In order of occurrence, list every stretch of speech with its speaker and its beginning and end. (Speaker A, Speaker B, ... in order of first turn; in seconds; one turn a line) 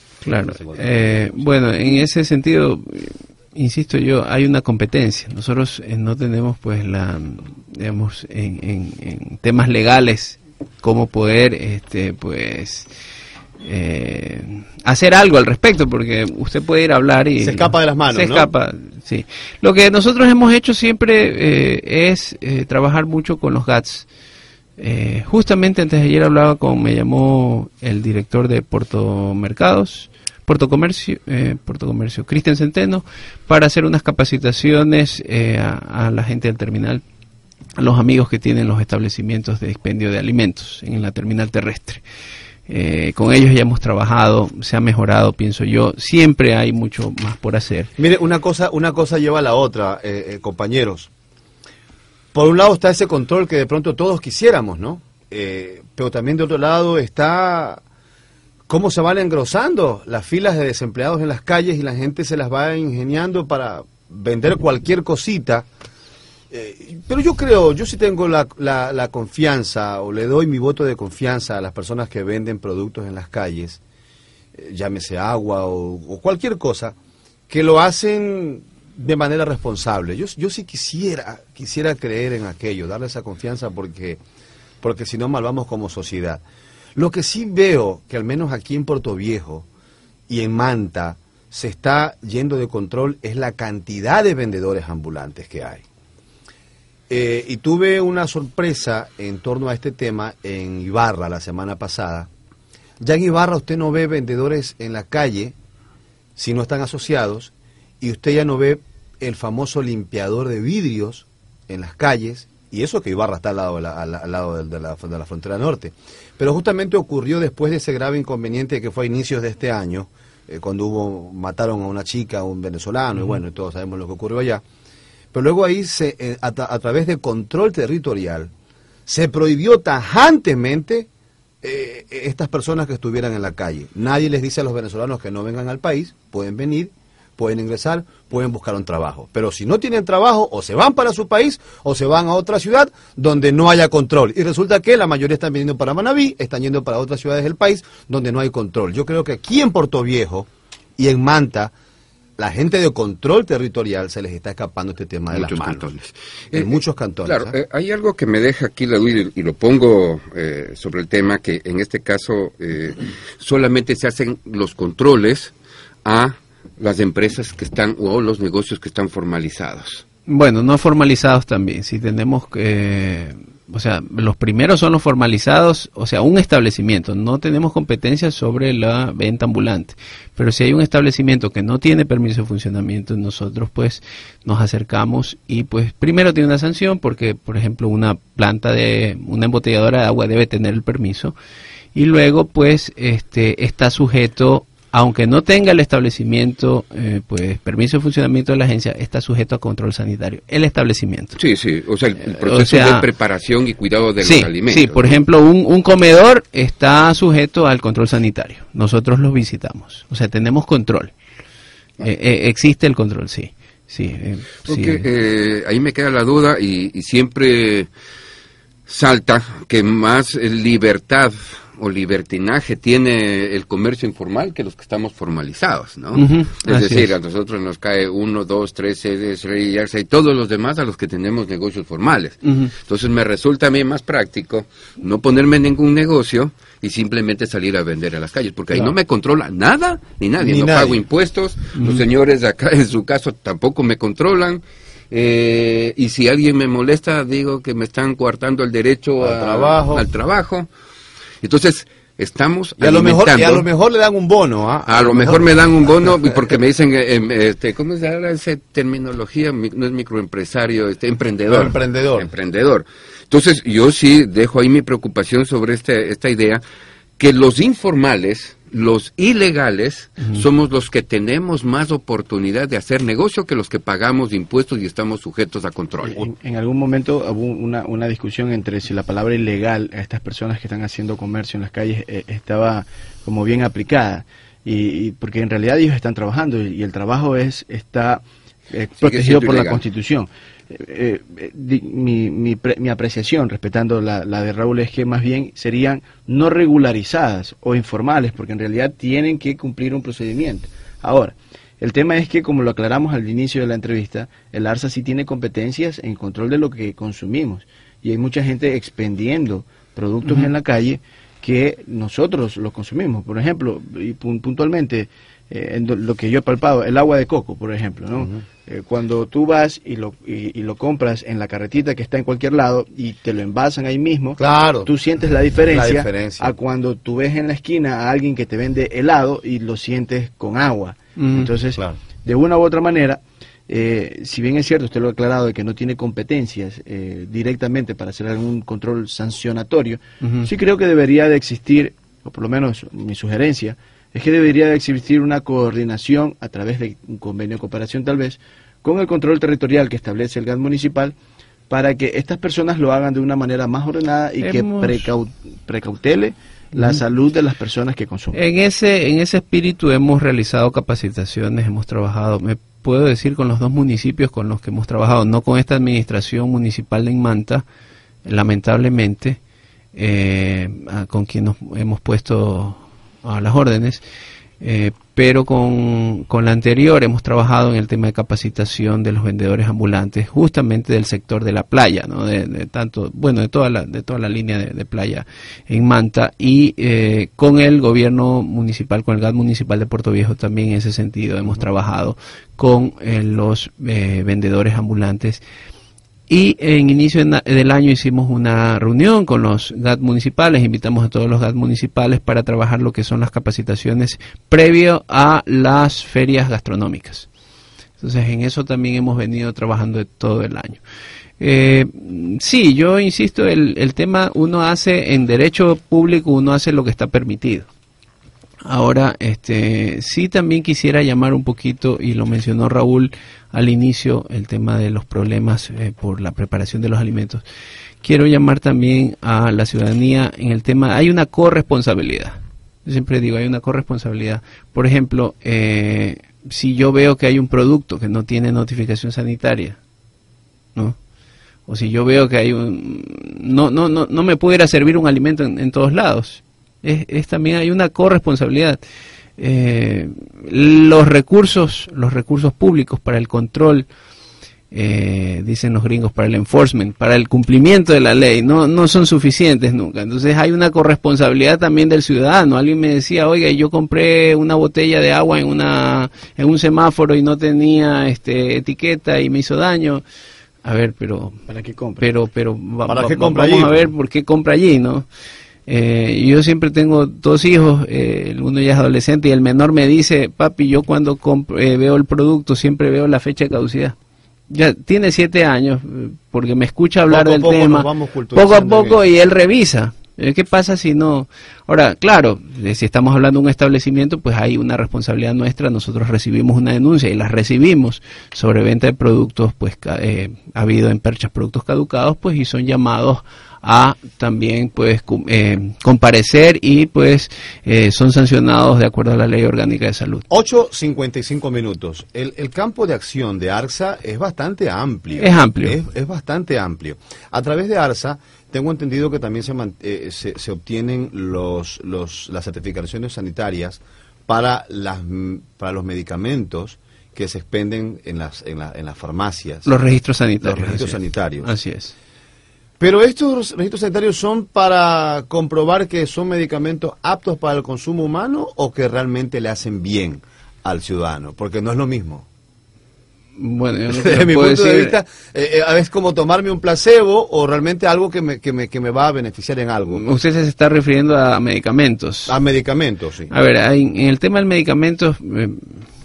Speaker A: 0.2-12.9
Speaker B: 0.4-1.6
Speaker A: 13.6-24.1
Speaker B: 17.4-18.5
Speaker A: 24.8-37.0
Speaker A: 37.8-42.0
Speaker A: 42.7-47.9
Speaker B: 48.0-51.1
Speaker B: 52.3-57.8
Speaker B: 58.7-65.7
Speaker B: 66.5-73.8
Speaker B: 74.5-76.9
Speaker B: 77.5-84.2
Speaker B: 84.8-86.4
Speaker B: 87.0-89.7
Speaker B: 90.3-95.8
Speaker B: 97.1-102.3
Speaker B: 103.0-105.5
Speaker B: 106.3-124.6
Speaker B: 125.3-128.5
Speaker B: 129.1-131.1
Speaker B: 131.6-151.7
Speaker B: 152.4-155.9
Speaker C: 155.3-156.7
Speaker B: 156.5-157.6
Speaker C: 157.2-165.5
Speaker C: 166.0-170.0
Speaker A: 170.3-191.3
Speaker A: 191.9-201.4
Speaker C: 201.4-205.2
Speaker A: 202.2-203.1
Speaker A: 204.2-211.1
Speaker A: 212.0-215.1
Speaker C: 214.7-217.9
Speaker C: 218.9-250.7
Speaker A: 226.1-227.1
Speaker A: 232.4-232.7
Speaker B: 240.4-241.0
Speaker B: 249.2-250.1
Speaker C: 251.4-253.7
Speaker B: 252.8-256.1
Speaker C: 254.9-266.6
Speaker B: 261.5-262.3
Speaker C: 267.2-276.3
Speaker D: 276.0-351.1
Speaker C: 289.0-289.8
Speaker A: 310.2-310.5
Speaker B: 324.4-324.9
Speaker B: 325.7-326.5
Speaker A: 331.2-331.5
Speaker A: 340.2-340.5
Speaker D: 351.7-358.4
Speaker A: 354.4-355.1
Speaker A: 358.3-367.6
Speaker A: 368.2-369.4
Speaker A: 369.9-374.0
Speaker A: 374.6-395.4
Speaker A: 396.3-407.3
Speaker A: 408.0-410.8
Speaker A: 411.4-417.7
Speaker A: 418.6-427.4
Speaker A: 428.0-439.8
Speaker A: 441.7-448.8
Speaker A: 449.4-453.9
Speaker A: 454.7-470.0
Speaker A: 470.6-471.4
Speaker D: 471.4-472.1
Speaker A: 472.0-475.1
Speaker B: 472.9-473.9
Speaker A: 475.7-483.9
Speaker A: 484.5-510.2
Speaker B: 487.1-489.0
Speaker B: 510.3-529.7
Speaker A: 515.2-515.8
Speaker A: 529.6-531.9
Speaker B: 530.4-531.5
Speaker B: 532.8-542.2
Speaker A: 543.4-545.0
Speaker B: 543.9-550.0
Speaker A: 549.9-552.4
Speaker B: 552.3-553.3
Speaker A: 553.3-555.9